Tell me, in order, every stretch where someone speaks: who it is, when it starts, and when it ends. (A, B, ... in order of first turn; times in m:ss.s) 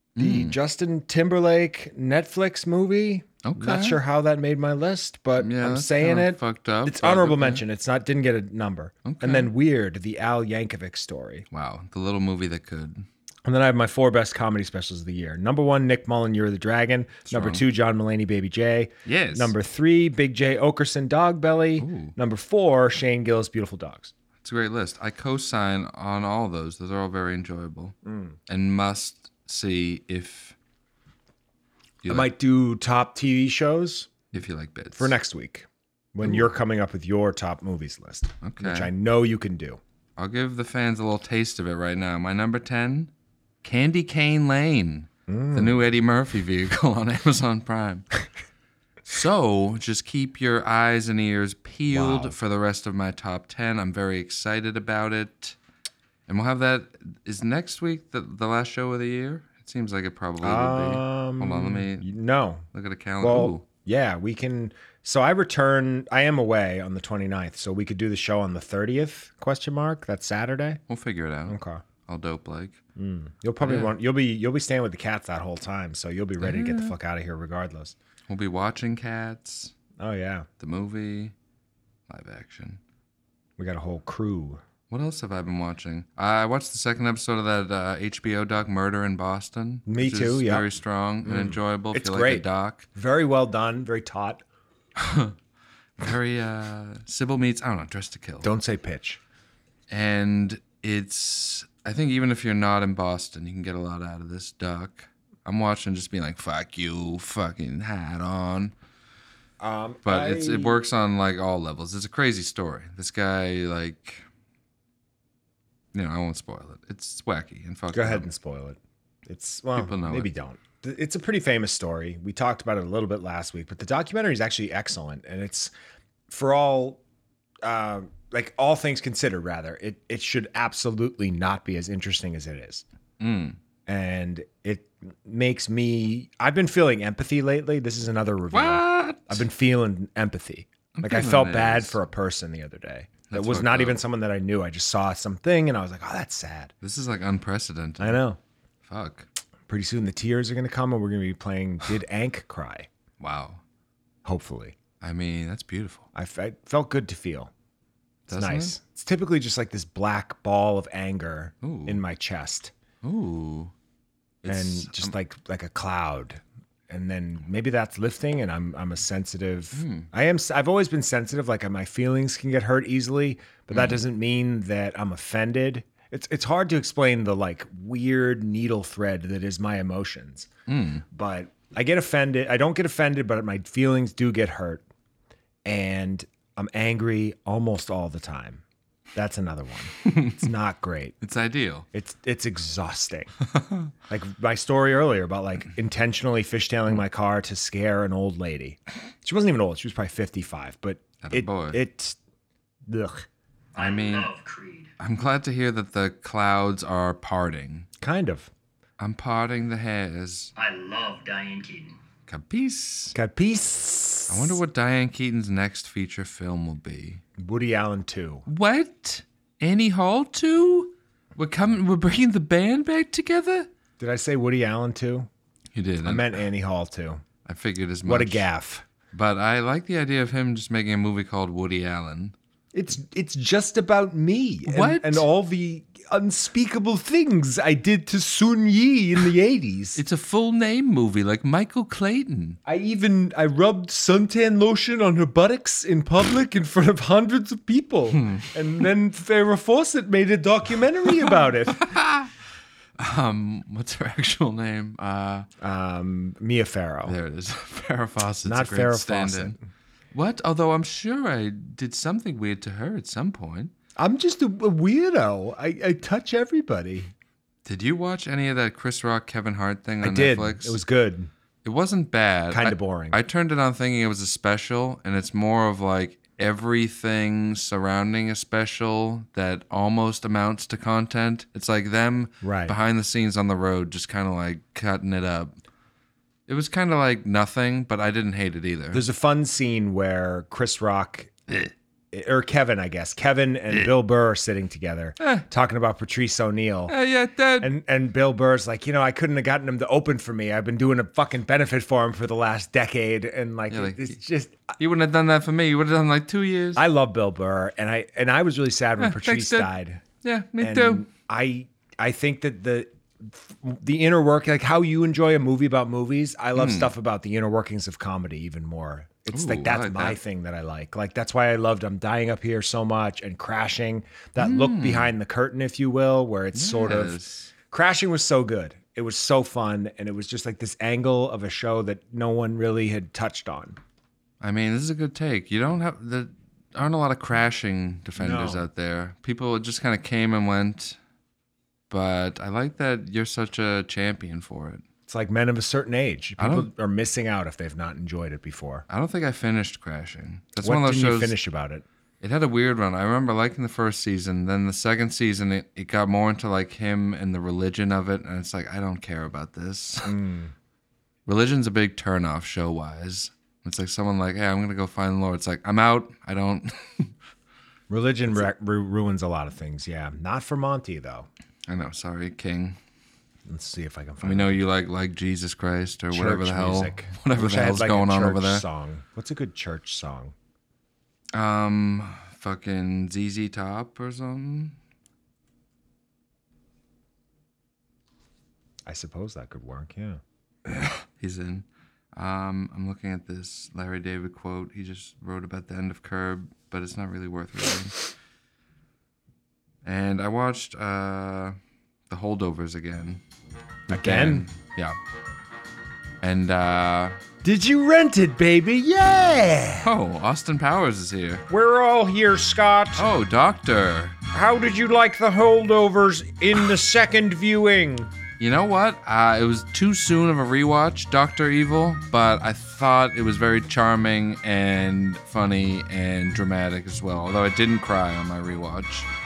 0:00.2-0:00.6 A
0:00.2-0:11.4 B
0:03.4-0:04.0 A
0:05.4-0:07.6 A
0:09.0-0:09.5 A
0:11.5-0:13.0 A
0:13.4-0:24.1 B
0:17.3-0:17.6 A
0:19.0-0:19.5 A
0:21.8-0:22.1 A
0:24.4-0:28.0 A
0:28.0-0:28.4 B
0:28.5-0:30.6 A
0:32.0-0:32.3 A
0:32.0-0:34.2 B
0:34.3-0:35.1 A
0:34.9-0:39.8 B
0:36.2-0:36.5 A
0:38.4-0:38.9 A
0:40.2-0:43.1 A
0:43.6-0:48.1 A
0:45.3-0:45.8 B
0:49.0-0:55.6 A
0:51.9-0:52.3 B
0:56.3-1:02.1 A
1:00.4-1:02.6 B
1:02.7-1:03.6 A
1:03.2-1:10.8 B
1:10.9-1:12.8 A
1:11.5-1:11.8 B
1:13.0-1:17.9 B
1:13.6-1:13.9 A
1:16.4-1:16.9 A
1:18.3-1:19.7 A
1:20.0-1:20.5 B
1:20.6-1:21.3 A
1:22.1-1:22.8 A
1:23.6-1:24.6 B
1:24.9-1:32.9 A
1:29.9-1:30.7 B
1:31.2-1:34.4 B
1:35.0-1:35.3 A
1:36.0-1:38.5 A
1:38.4-1:39.2 B
1:39.9-1:48.7 A
1:49.6-1:50.8 B
1:50.0-1:54.2 A
1:55.9-1:58.3 A
1:57.9-2:05.7 B
1:59.7-2:00.3 A
2:06.3-2:07.0 B
2:07.6-2:12.8 B
2:13.2-2:13.6 A
2:13.8-2:26.7 B
2:18.5-2:19.4 A
2:20.9-2:22.0 A
2:23.3-2:24.0 A
2:26.8-2:28.2 A
2:28.0-2:28.4 B
2:28.8-2:29.3 A
2:29.7-2:32.9 B
2:33.2-2:33.6 A
2:34.2-2:34.7 B
2:35.0-2:36.1 A
2:36.1-2:37.5 B
2:38.3-2:38.7 A
2:38.3-2:42.7 B
2:41.6-2:42.0 A
2:43.0-2:43.7 A
2:44.4-2:45.1 A
2:44.5-3:00.5 B
2:49.7-2:50.1 A
2:53.7-2:54.0 A
3:00.7-3:01.0 A
3:01.1-3:04.8 B
3:05.6-3:08.6 B
3:09.1-3:11.2 B
3:11.2-3:11.9 A
3:11.9-3:13.3 B
3:13.5-3:13.9 A
3:14.1-3:22.2 B
3:21.2-3:21.8 A
3:22.9-3:23.3 B
3:23.8-3:24.3 A
3:23.8-3:24.8 C
3:25.0-3:27.9 A
3:28.0-3:28.5 B
3:29.0-3:30.5 A
3:30.6-3:31.9 C
3:32.3-3:33.1 A
3:33.1-3:34.6 B
3:34.3-3:37.2 A
3:37.4-3:38.4 B
3:38.5-3:43.7 A
3:44.0-3:45.3 B
3:45.7-3:46.4 A
3:46.0-3:47.2 B
3:47.4-3:48.4 A
3:48.0-3:48.8 B
3:49.1-3:52.3 A
3:52.7-4:00.0 B
3:54.7-3:55.2 A
4:00.0-4:02.6 A
4:02.6-4:11.9 B
4:11.2-4:12.3 A
4:13.0-4:15.5 A
4:15.6-4:17.1 B
4:17.0-4:19.6 A
4:18.4-4:19.6 B
4:20.1-4:23.7 A
4:24.0-4:27.1 B
4:27.6-4:30.8 A
4:30.0-4:31.3 B
4:31.6-4:45.5 A
4:32.5-4:33.2 B
4:42.4-4:42.7 B
4:46.5-4:49.0 A
4:48.9-4:51.3 B
4:52.1-4:56.9 B
4:55.2-4:55.4 A
4:56.9-4:57.7 A
4:57.6-5:04.7 B
5:03.7-5:04.2 A
5:04.8-5:06.8 A
5:06.8-5:10.0 B
5:09.0-5:09.7 A
5:10.2-5:11.0 A
5:10.6-5:33.8 B
5:16.5-5:16.9 A
5:19.3-5:20.2 A
5:24.4-5:25.1 A
5:26.5-5:27.5 A
5:34.4-5:41.0 A
5:38.2-5:38.6 B
5:41.9-5:44.8 A
5:45.1-5:48.8 B
5:46.4-5:46.7 A
5:48.9-5:51.4 A
5:50.6-5:51.8 B
5:52.2-6:00.1 A
6:00.0-6:00.5 B
6:01.2-6:07.1 A
6:07.9-6:11.3 B
6:11.7-6:12.8 A
6:13.5-6:14.6 B
6:14.2-6:18.6 A
6:16.1-6:20.3 B
6:21.3-6:24.8 A
6:28.8-6:30.2 B
6:31.1-6:38.0 A
6:39.8-6:41.6 A
6:42.1-6:43.2 A
6:43.9-6:44.5 B
6:43.9-6:45.0 A
6:46.2-6:47.2 A
6:47.4-6:49.9 B
6:49.8-6:51.4 A
6:51.5-6:53.1 B
6:53.0-6:54.2 A
6:54.3-6:58.1 B
6:58.4-7:09.1 A